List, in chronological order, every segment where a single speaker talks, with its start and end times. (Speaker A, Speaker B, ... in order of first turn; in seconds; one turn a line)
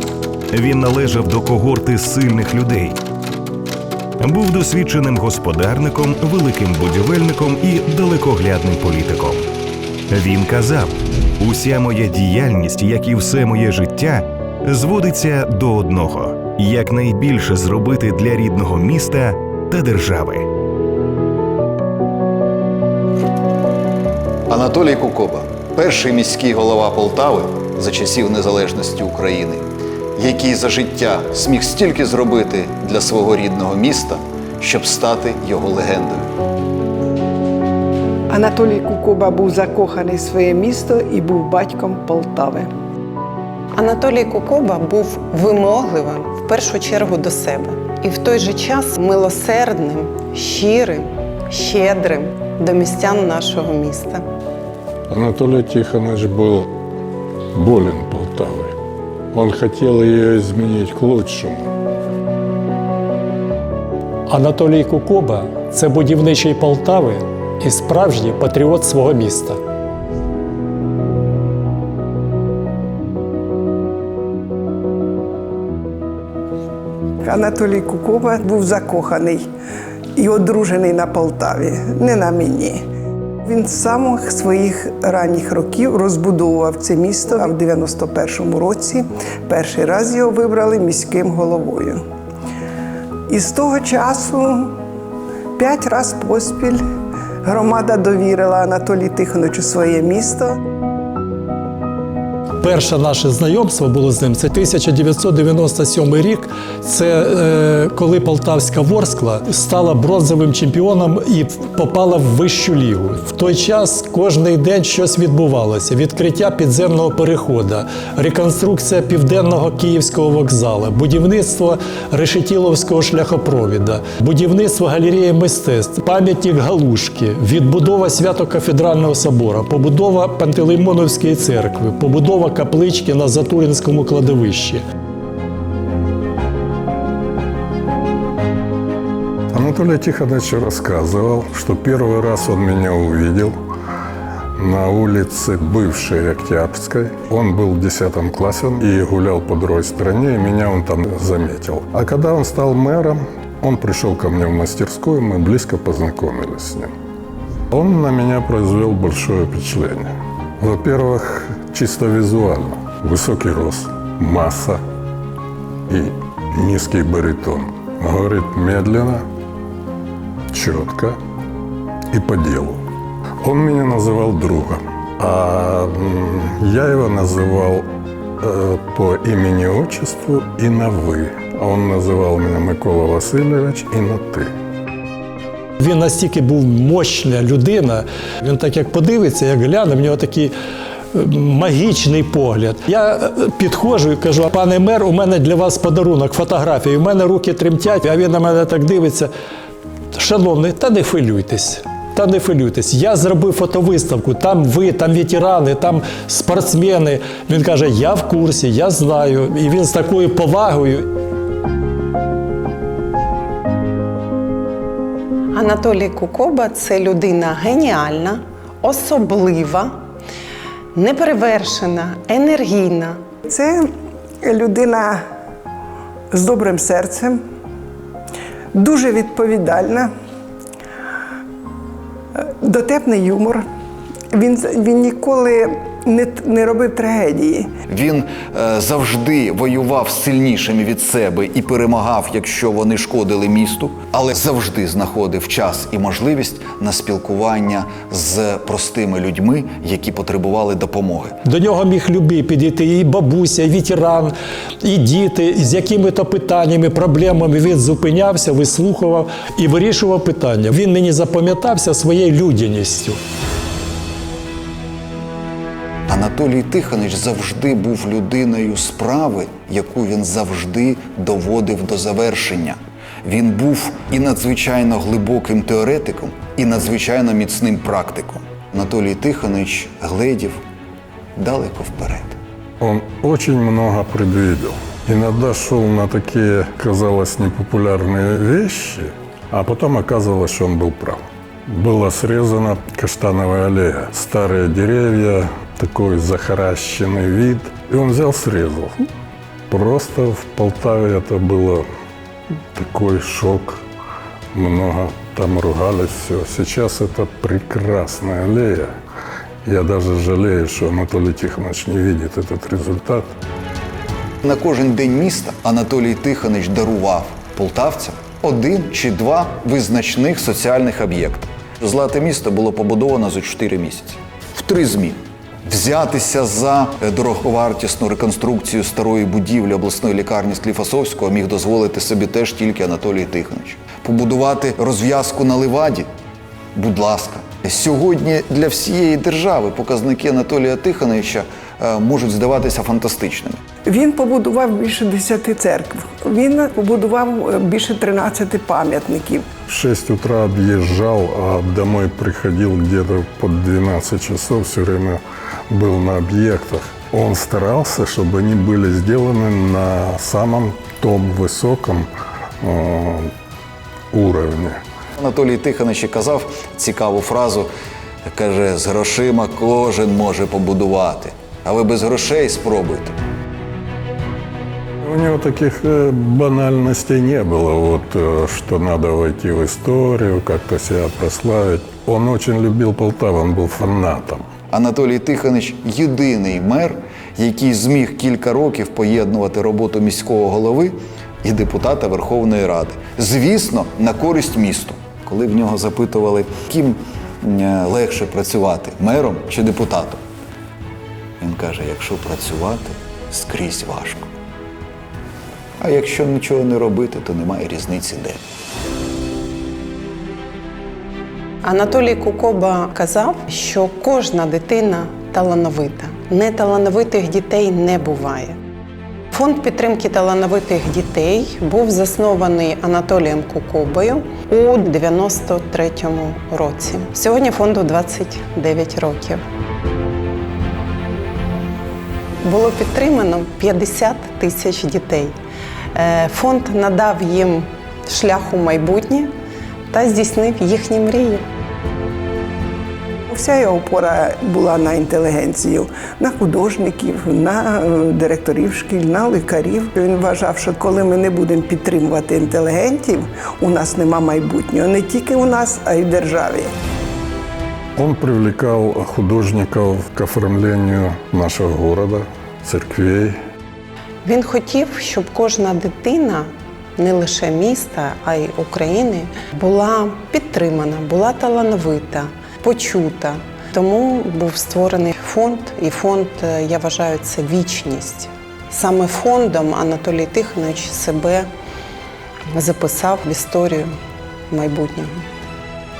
Speaker A: 0.5-3.0
Speaker A: 4.2-9.5
Speaker A: 10.1-20.5
Speaker B: 24.5-36.3
Speaker C: 38.3-42.7
Speaker D: 43.8-54.2
Speaker E: 55.1-56.7
Speaker E: 57.5-58.7
Speaker E: 59.3-61.7
Speaker F: 64.3-69.6
Speaker C: 77.2-79.5
Speaker C: 80.2-82.8
Speaker C: 83.5-92.0
Speaker C: 93.3-94.7
Speaker C: 95.6-96.8
Speaker C: 97.5-100.5
Speaker F: 102.6-134.8
Speaker E: 139.5-143.5
Speaker E: 144.6-156.9
Speaker E: 157.7-164.8
Speaker E: 165.9-169.2
Speaker E: 170.5-171.2
Speaker E: 172.1-172.8
Speaker E: 173.4-177.9
Speaker E: 178.4-184.5
Speaker F: 185.8-190.5
Speaker F: 191.1-199.3
Speaker F: 200.1-211.1
Speaker D: 215.5-220.0
Speaker D: 220.9-223.2
Speaker C: 223.5-223.9
Speaker C: 224.4-225.2
Speaker C: 226.3-227.4
Speaker C: 228.7-230.1
Speaker C: 232.4-233.7
Speaker C: 234.3-237.7
Speaker B: 237.9-251.4
Speaker F: 251.4-263.2
Speaker B: 266.1-280.6
Speaker B: 281.4-282.4
Speaker E: 282.8-298.9
Speaker E: 299.7-301.8
Speaker E: 302.8-303.8
Speaker E: 304.5-308.9
Speaker E: 309.6-313.3
Speaker B: 314.4-336.1
Speaker B: 336.8-343.6
Speaker C: 343.9-349.5
Speaker E: 349.7-362.1
Speaker E: 362.6-363.3
Speaker E: 364.1-364.8
Speaker B: 365.2-367.7
Speaker B: 368.3-373.1
Speaker E: 375.0-384.4
Speaker B: 384.7-400.2
Speaker B: 401.4-404.3
Speaker B: 405.8-408.4
Speaker D: 411.6-418.6
Speaker D: 419.3-429.4
Speaker D: 432.4-435.3
Speaker D: 435.9-439.3
Speaker D: 439.9-441.4
Speaker C: 443.3-456.7
Speaker E: 458.0-463.3
Speaker D: 464.2-481.5
Speaker D: 482.5-483.9
Speaker D: 484.5-485.2